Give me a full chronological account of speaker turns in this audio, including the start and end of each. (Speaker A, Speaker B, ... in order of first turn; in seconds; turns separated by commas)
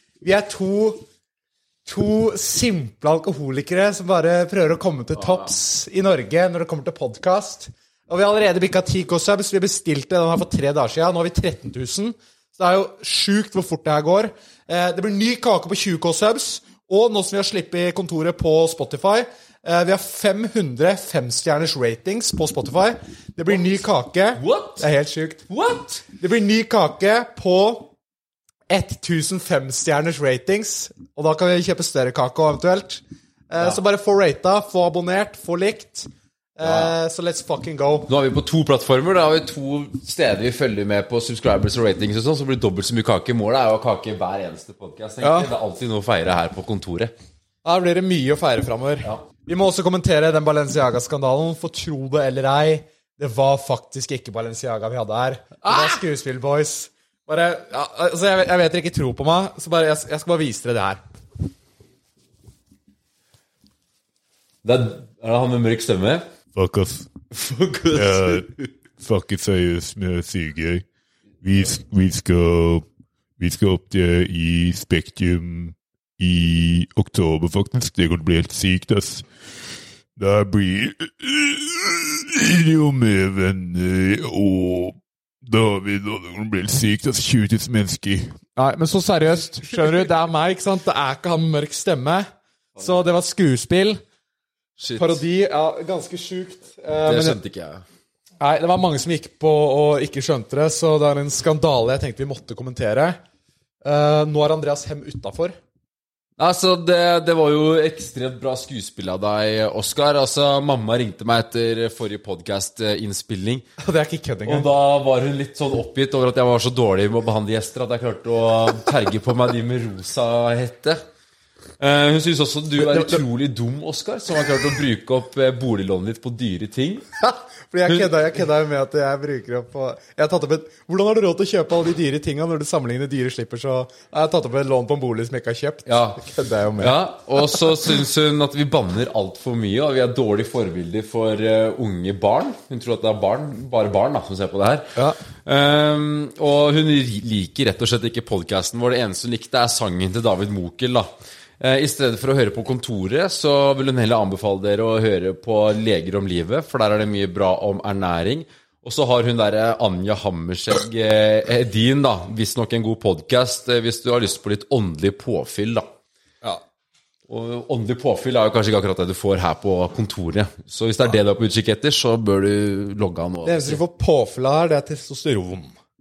Speaker A: 0.2-1.1, Speaker A: 1.9-25.4, Speaker B: 5.2-5.5, Speaker B: 24.4-24.9, Speaker B: 25.5-26.0, Speaker A: 26.2-27.9, Speaker A: 28.7-38.1, Speaker B: 36.6-37.0, Speaker B: 38.1-47.1, Speaker A: 45.2-45.5, Speaker A: 47.6-61.0, Speaker B: 55.6-56.0, Speaker B: 64.6-66.3, Speaker C: 66.5-67.1, Speaker B: 67.3-68.7, Speaker C: 67.9-68.5, Speaker C: 69.0-70.8, Speaker C: 71.4-72.8, Speaker C: 73.4-79.2, Speaker C: 80.2-88.4, Speaker A: 88.6-94.0, Speaker B: 94.8-95.2, Speaker A: 95.0-97.4, Speaker B: 97.0-97.8, Speaker A: 98.4-103.2, Speaker A: 103.8-105.6, Speaker B: 106.4-113.7, Speaker A: 113.8-114.7, Speaker B: 114.5-121.0, Speaker B: 121.8-127.0, Speaker A: 122.8-123.2, Speaker A: 127.2-137.0, Speaker B: 127.9-128.1, Speaker B: 135.9-136.2, Speaker B: 136.8-165.9, Speaker B: 167.3-173.8, Speaker A: 173.4-175.8